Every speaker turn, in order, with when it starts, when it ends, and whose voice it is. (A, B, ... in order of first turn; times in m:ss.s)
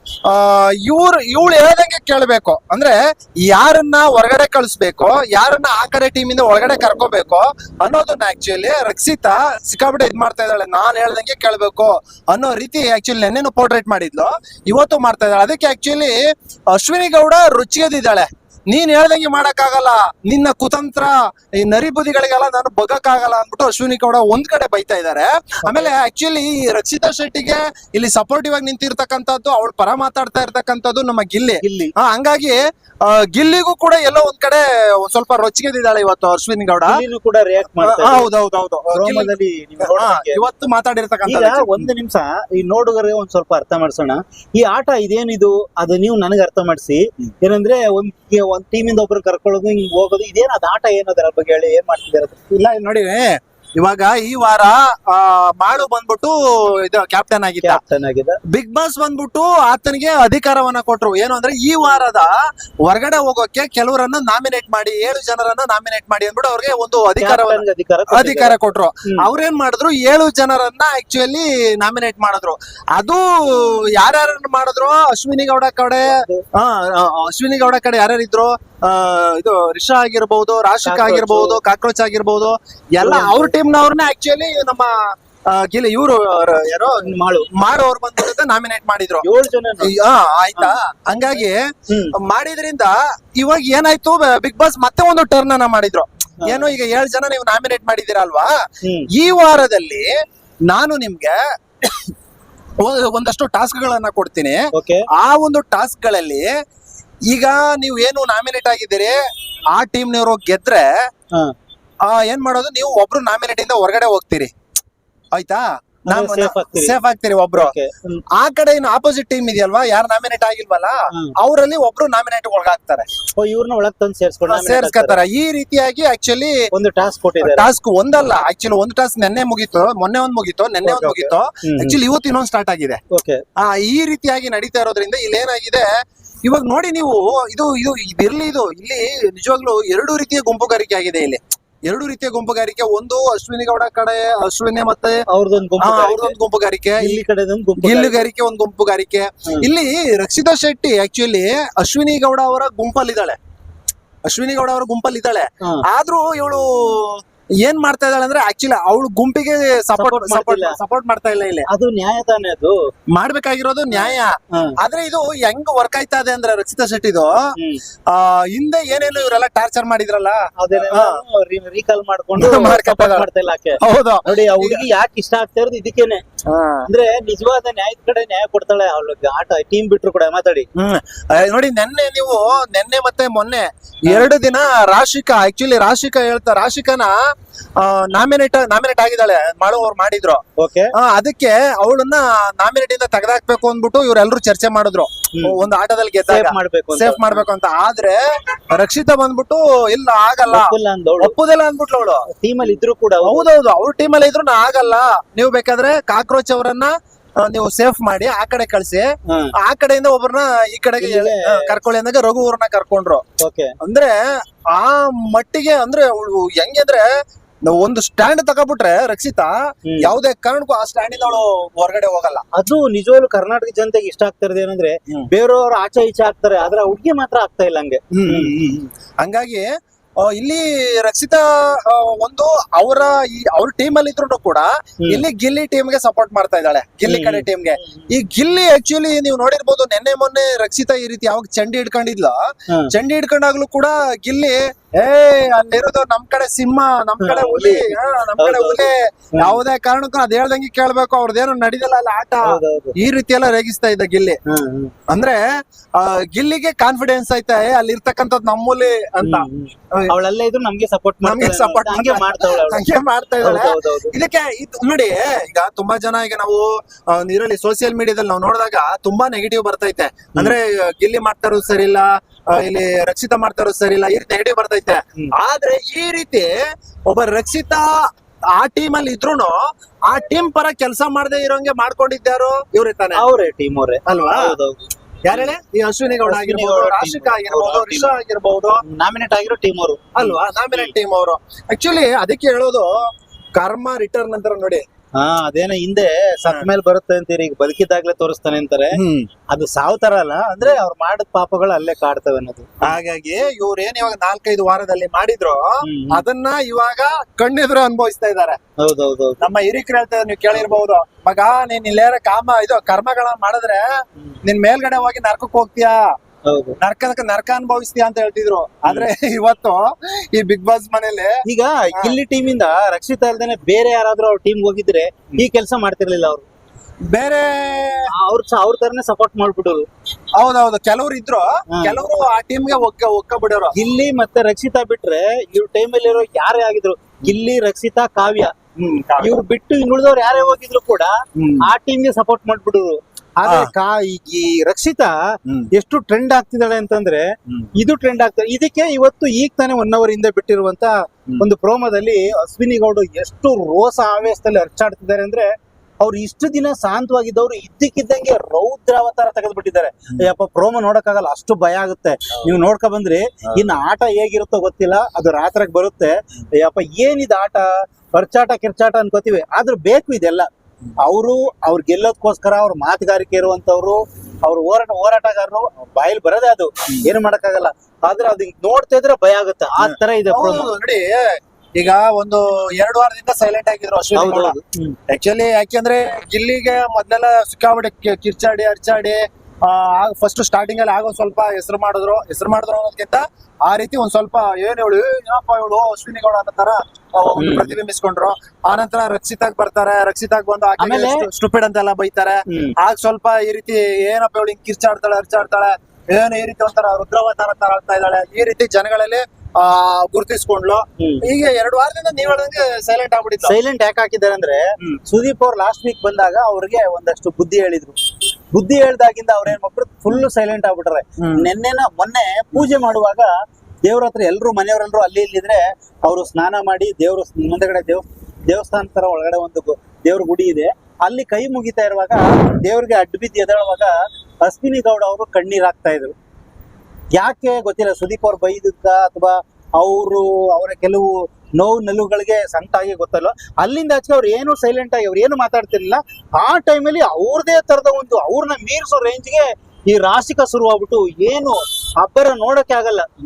0:00.2-0:16.2 A
0:16.7-0:37.0 A
0:25.6-0:25.9 B
0:31.6-0:31.9 B
0:36.9-0:38.3 B
0:37.8-0:41.9 A
0:38.9-0:40.4 B
0:41.2-0:52.4 B
0:52.5-0:57.8 A
0:57.6-0:58.4 B
0:58.5-1:02.3 A
1:02.8-1:24.9 A
1:07.2-1:09.2 B
1:16.1-1:16.4 B
1:20.8-1:21.6 B
1:23.0-1:23.5 B
1:25.5-1:29.3 A
1:27.0-1:27.5 B
1:29.2-1:29.9 B
1:29.8-1:31.6 A
1:31.9-1:32.1 B
1:32.2-1:38.5 A
1:36.4-1:36.7 B
1:38.8-1:39.1 B
1:39.1-1:40.1 A
1:40.7-1:42.1 A
1:42.8-1:44.6 A
1:44.7-1:45.0 B
1:45.1-1:46.5 A
1:47.3-1:49.2 A
1:49.7-1:50.9 A
1:52.0-1:54.5 A
1:55.3-1:57.7 A
1:56.1-1:57.0 B
1:57.6-1:58.2 B
1:58.3-2:03.1 A
2:03.4-2:05.2 B
2:04.5-2:06.6 A
2:06.7-2:07.7 B
2:07.4-2:13.0 A
2:10.8-2:12.0 B
2:13.1-2:13.4 B
2:13.6-2:15.9 A
2:16.4-2:25.2 A
2:25.3-2:26.4 B
2:25.8-2:27.2 A
2:27.0-2:28.3 B
2:27.8-2:33.4 A
2:34.3-2:41.7 A
2:40.0-2:40.8 B
2:41.7-2:42.7 B
2:43.1-2:47.4 A
2:43.9-2:44.8 B
2:48.1-2:51.2 A
2:50.6-2:56.2 B
2:52.4-2:53.3 A
2:53.8-2:54.8 A
2:56.5-2:56.9 A
2:56.9-3:00.7 B
3:00.8-3:07.1 A
3:07.8-3:10.4 A
3:10.6-3:10.9 B
3:11.0-3:18.2 A
3:16.2-3:17.4 B
3:18.7-3:22.2 A
3:20.5-3:21.3 B
3:22.3-3:23.5 B
3:23.2-3:29.1 A
3:29.3-3:29.5 B
3:29.6-3:33.2 A
3:31.0-3:31.7 B
3:33.4-3:33.7 B
3:33.8-3:34.1 A
3:34.7-3:37.0 A
3:37.7-3:42.4 A
3:42.5-3:48.5 B
3:48.1-3:49.6 A
3:50.3-4:02.4 A
3:57.0-3:57.9 B
4:02.9-4:12.4 A
4:07.2-4:09.6 B
4:12.4-4:13.0 B
4:13.0-4:14.4 A
4:14.5-4:14.9 B
4:15.1-4:15.4 A
4:16.0-4:20.1 A
4:19.2-4:22.8 B
4:21.2-4:36.5 A
4:23.4-4:24.1 B
4:37.1-4:37.9 A
4:38.5-4:43.2 A
4:43.1-4:45.5 B
4:44.0-4:44.4 A
4:45.2-4:48.8 A
4:46.2-4:48.1 B
4:48.8-4:50.9 B
4:50.1-4:52.9 A
4:53.6-4:54.8 A
4:55.2-4:59.0 B
4:58.9-4:59.3 A
4:59.5-5:02.9 B
5:02.8-5:08.6 A
5:05.8-5:06.2 B
5:08.8-5:09.4 B
5:09.4-5:13.8 A
5:14.4-5:16.0 A
5:16.5-5:16.8 B
5:16.8-5:19.8 A
5:20.3-5:21.3 A
5:21.4-5:26.4 B
5:27.1-5:28.1 A
5:28.1-5:29.8 B
5:30.4-5:33.7 A
5:31.7-5:32.0 B
5:33.7-5:38.5 B
5:38.8-5:39.4 A
5:39.2-5:41.1 B
5:41.4-5:41.6 A
5:41.6-5:45.1 B
5:43.4-5:43.7 A
5:45.7-5:55.5 B
5:56.0-6:10.5 B
6:11.0-6:20.7 B
6:19.8-6:24.6 A
6:24.1-6:25.0 B
6:25.1-6:53.6 A
6:37.4-6:37.8 B
6:40.8-6:41.3 B
6:42.5-6:42.8 B
6:51.0-6:51.3 B
6:53.4-6:58.0 B
6:58.5-7:03.3 B
7:01.2-7:01.5 A
7:03.8-7:13.9 B
7:14.4-7:16.1 B
7:17.1-7:33.1 B